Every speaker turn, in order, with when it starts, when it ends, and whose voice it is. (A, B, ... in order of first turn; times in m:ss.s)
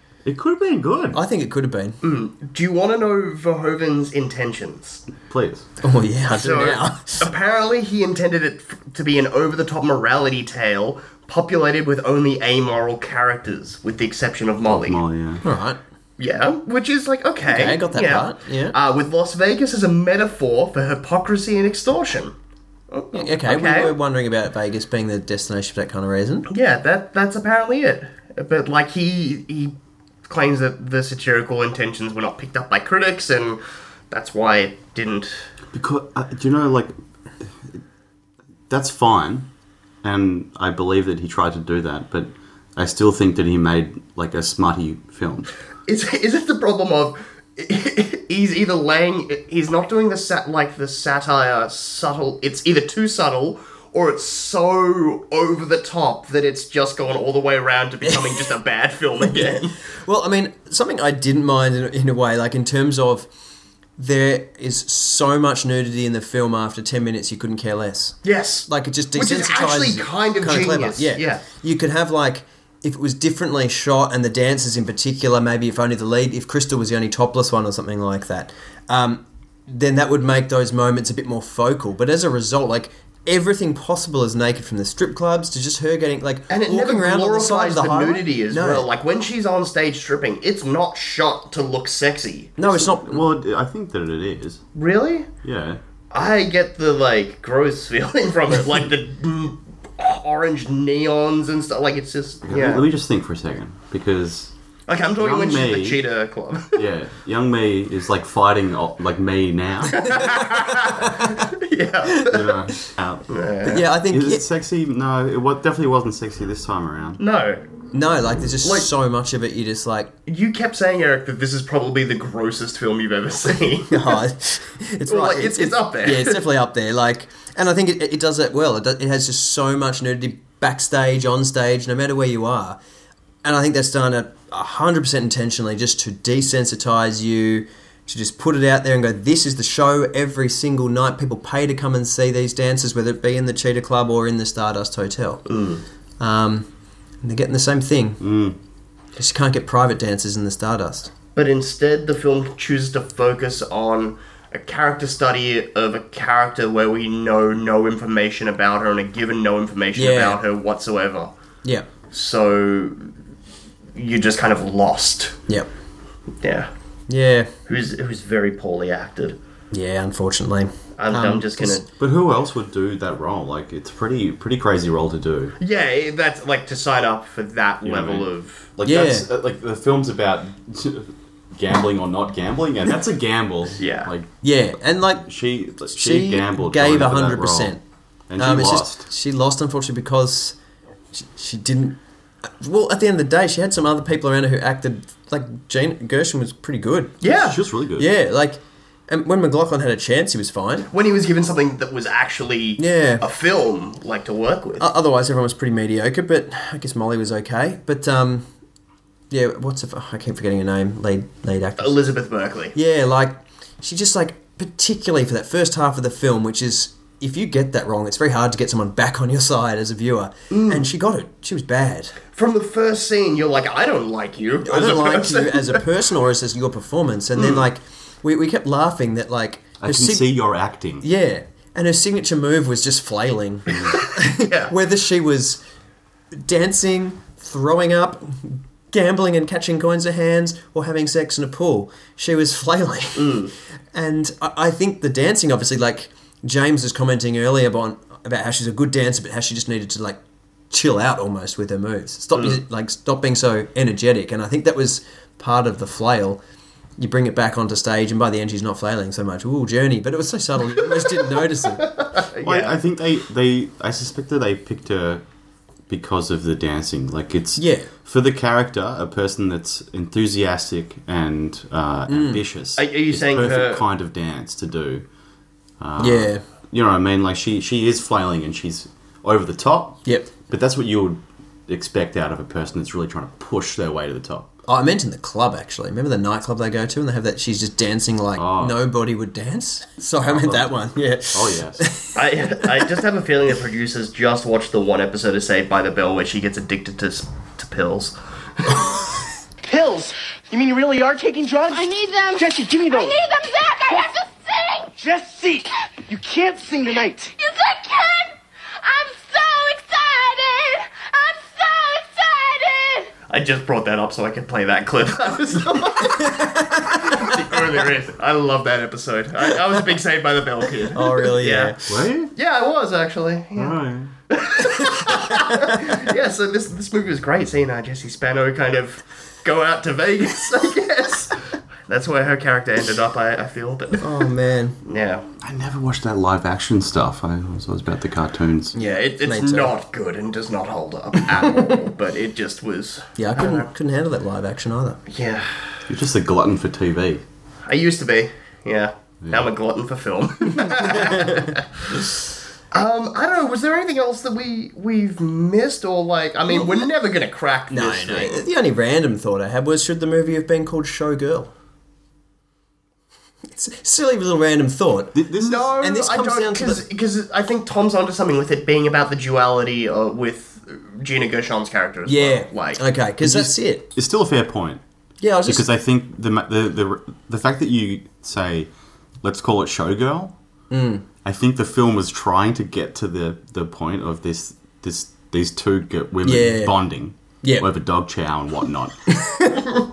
0:00.2-0:01.2 A
0:01.1-0:02.0 B
0:02.0-0:05.0 C
0:05.3-0:05.6 A
0:05.8-0:07.3 B
0:06.3-0:15.0 C
0:14.7-0:15.4 A
0:15.4-0:15.8 B
0:16.2-0:22.3 C
0:17.4-0:18.8 B
0:22.9-0:23.9 C
0:23.1-0:26.5 B
0:26.5-0:29.7 C
0:30.3-0:33.6 C
0:34.1-0:35.4 C
0:35.7-0:37.8 A
0:38.7-0:39.5 A
0:40.0-0:45.5 A
0:45.9-0:59.7 C
0:58.0-0:58.3 B
0:59.2-1:03.3 B
1:04.0-1:28.9 B
1:08.2-1:11.4 C
1:26.5-1:32.6 C
1:32.6-1:33.2 B
1:32.7-1:34.6 A
1:34.7-1:35.3 C
1:35.4-1:35.8 A
1:36.1-1:42.8 C
1:42.4-1:44.5 A
1:44.9-1:46.8 C
1:45.2-1:46.0 A
1:46.7-1:50.2 A
1:49.9-1:52.4 C
1:52.3-1:53.3 A
1:53.3-1:53.8 C
1:53.6-1:54.4 B
1:53.9-1:57.2 A
1:57.2-1:57.6 C
1:57.9-2:00.1 B
1:58.6-1:58.9 C
2:00.3-2:04.1 C
2:03.9-2:12.8 B
2:05.1-2:06.4 C
2:13.4-2:25.4 B
2:25.5-2:25.8 C
2:26.2-2:26.7 B
2:27.2-2:28.2 B
2:28.2-2:28.6 A
2:29.2-2:31.1 B
2:31.3-2:41.3 C
2:40.0-2:40.4 B
2:42.1-2:43.1 C
2:44.0-2:45.4 C
2:46.4-2:46.7 C
2:47.1-2:47.5 B
2:47.7-2:49.4 C
2:49.7-2:51.8 B
2:51.0-2:51.9 C
2:52.0-2:55.5 A
2:55.6-2:58.7 C
2:57.8-3:04.3 A
2:58.8-2:59.3 B
3:03.8-3:04.1 C
3:04.4-3:05.3 B
3:05.2-3:07.8 A
3:05.9-3:07.8 B
3:08.3-3:09.1 A
3:08.4-3:10.6 B
3:11.1-3:17.3 B
3:17.2-3:17.6 C
3:17.3-3:18.1 A
3:18.0-3:20.9 B
3:20.9-3:24.9 C
3:22.8-3:23.2 B
3:24.8-3:28.5 B
3:29.3-3:31.9 B
3:31.8-3:32.7 C
3:32.7-3:42.2 B
3:40.5-3:40.8 C
3:42.3-3:45.8 C
3:44.6-3:50.4 B
3:47.4-3:47.6 C
3:49.8-3:51.1 A
3:51.0-3:55.6 B
3:53.8-3:54.7 C
3:56.3-4:10.2 B
4:03.2-4:03.5 C
4:10.7-4:16.4 B
4:12.3-4:12.6 C
4:17.0-4:21.9 B
4:20.8-4:22.7 C
4:22.4-4:25.2 A
4:25.9-4:35.0 A
4:27.6-4:27.9 B
4:32.1-4:32.4 B
4:32.8-4:33.8 C
4:35.8-4:44.5 A
4:36.0-4:36.4 B
4:40.0-4:40.3 B
4:44.6-4:52.1 B
4:48.4-4:48.8 A
4:50.2-4:50.7 A
4:51.3-4:51.9 A
4:52.1-4:58.8 C
4:59.6-5:03.2 D
5:01.7-5:04.9 E
5:05.0-5:07.3 D
5:07.3-5:13.1 E
5:13.3-5:21.7 C
5:16.2-5:17.1 B
5:20.9-5:21.9 B
5:21.9-5:22.3 A
5:22.3-5:23.8 C
5:23.6-5:24.1 A
5:24.3-5:31.3 C
5:31.9-5:34.0 C
5:34.0-5:34.8 B
5:34.8-5:35.2 C
5:35.4-5:38.7 A
5:38.7-5:39.7 B
5:38.8-5:43.7 C
5:41.3-5:41.6 B
5:43.2-5:45.0 B
5:45.1-5:45.6 C
5:45.9-5:47.2 A
5:47.6-5:51.8 C
5:49.2-5:49.5 A
5:50.7-5:51.5 B
5:52.7-5:58.4 C
5:56.5-5:56.8 B
5:57.7-6:01.5 B
6:03.5-6:05.2 B
6:05.1-6:05.7 A
6:05.4-6:12.8 C
6:05.8-6:06.8 B
6:12.0-6:13.9 B
6:13.2-6:14.8 A
6:15.2-6:15.6 B
6:15.4-6:18.7 A
6:19.2-6:20.3 A
6:20.7-6:21.0 B
6:21.2-6:29.0 A
6:26.2-6:26.8 B
6:29.1-6:29.6 B